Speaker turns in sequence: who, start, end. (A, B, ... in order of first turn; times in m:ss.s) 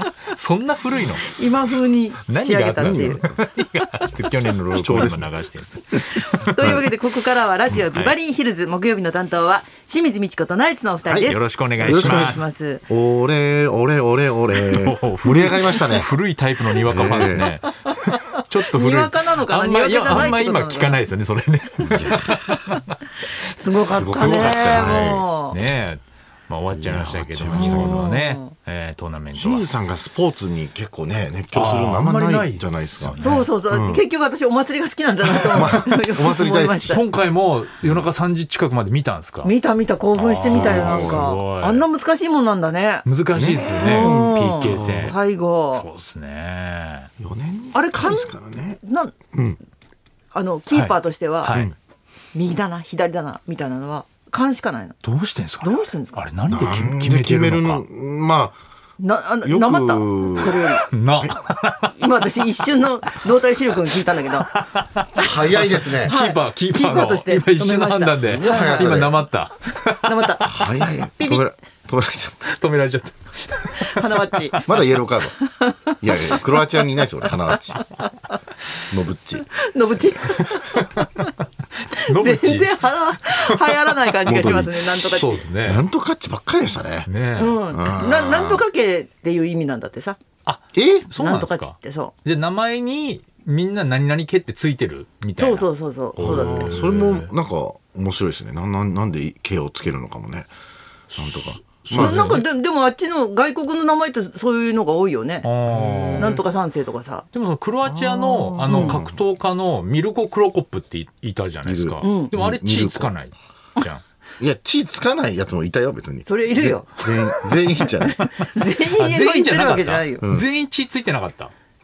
0:00.3-0:01.4 A
0:01.2-0:03.2 B
0:02.3-0:06.6 A
0:02.8-0:03.4 C
0:04.7-0:05.3 C
0:05.9-0:12.8 B
0:06.6-0:06.8 C
0:07.9-0:08.1 A
0:11.1-0:16.1 C
0:11.2-0:12.5 A
0:14.5-0:23.0 A
0:16.8-0:17.5 C
0:17.9-0:21.0 B
0:21.8-0:22.4 C
0:23.3-0:25.6 B
0:23.9-0:25.2 C
0:24.0-0:29.7 A
0:26.7-0:28.1 C
0:27.5-0:28.5 B
0:29.3-0:34.0 C
0:31.5-0:33.5 A
0:33.2-0:37.0 B
0:35.2-0:37.0 C
0:36.8-0:39.5 A
0:39.4-0:43.0 B
0:40.1-0:41.8 A
0:40.4-0:41.2 C
0:43.0-0:45.2 A
0:43.3-0:45.1 C
0:43.8-0:45.8 B
0:45.7-0:47.1 A
0:47.2-0:48.8 C
0:47.7-0:49.1 B
0:49.3-0:49.6 C
0:50.3-0:51.6 B
0:50.7-0:51.7 A
0:52.3-0:55.0 B
0:55.0-0:57.8 A
0:55.6-0:56.2 B
0:56.5-0:58.6 C
0:59.0-1:00.9 B
0:59.4-1:01.4 C
1:00.9-1:01.9 A
1:01.9-1:04.5 B
1:04.5-1:10.6 A
1:05.1-1:06.1 C
1:06.0-1:09.1 B
1:08.3-1:09.2 C
1:10.0-1:10.5 B
1:10.4-1:12.5 C
1:11.2-1:11.4 B
1:12.5-1:14.8 A
1:13.7-1:14.7 B
1:14.6-1:15.4 C
1:15.4-1:16.8 B
1:16.0-1:17.8 C
1:17.8-1:18.0 B
1:18.9-1:19.5 C
1:19.4-1:21.3 B
1:20.5-1:21.1 A
1:21.9-1:25.8 A
1:22.0-1:25.4 B
1:24.2-1:25.0 C
1:25.6-1:27.1 C
1:27.0-1:27.6 A
1:27.4-1:30.2 B
1:27.7-1:28.6 C
1:30.4-1:37.3 A
1:30.7-1:31.1 C
1:31.2-1:32.1 B
1:35.4-1:36.8 B
1:36.2-1:40.5 C
1:41.1-1:42.5 A
1:41.2-1:42.3 C
1:41.9-1:45.5 B
1:45.4-1:46.4 A
1:45.7-1:46.4 C
1:46.2-1:47.2 B
1:47.3-1:54.0 A
1:47.8-1:49.2 C
1:48.7-1:49.0 B
1:51.6-1:53.1 C
1:52.0-1:52.3 B
1:54.4-1:58.2 C
1:56.2-2:00.2 B
1:58.2-2:01.5 A
2:00.2-2:00.5 C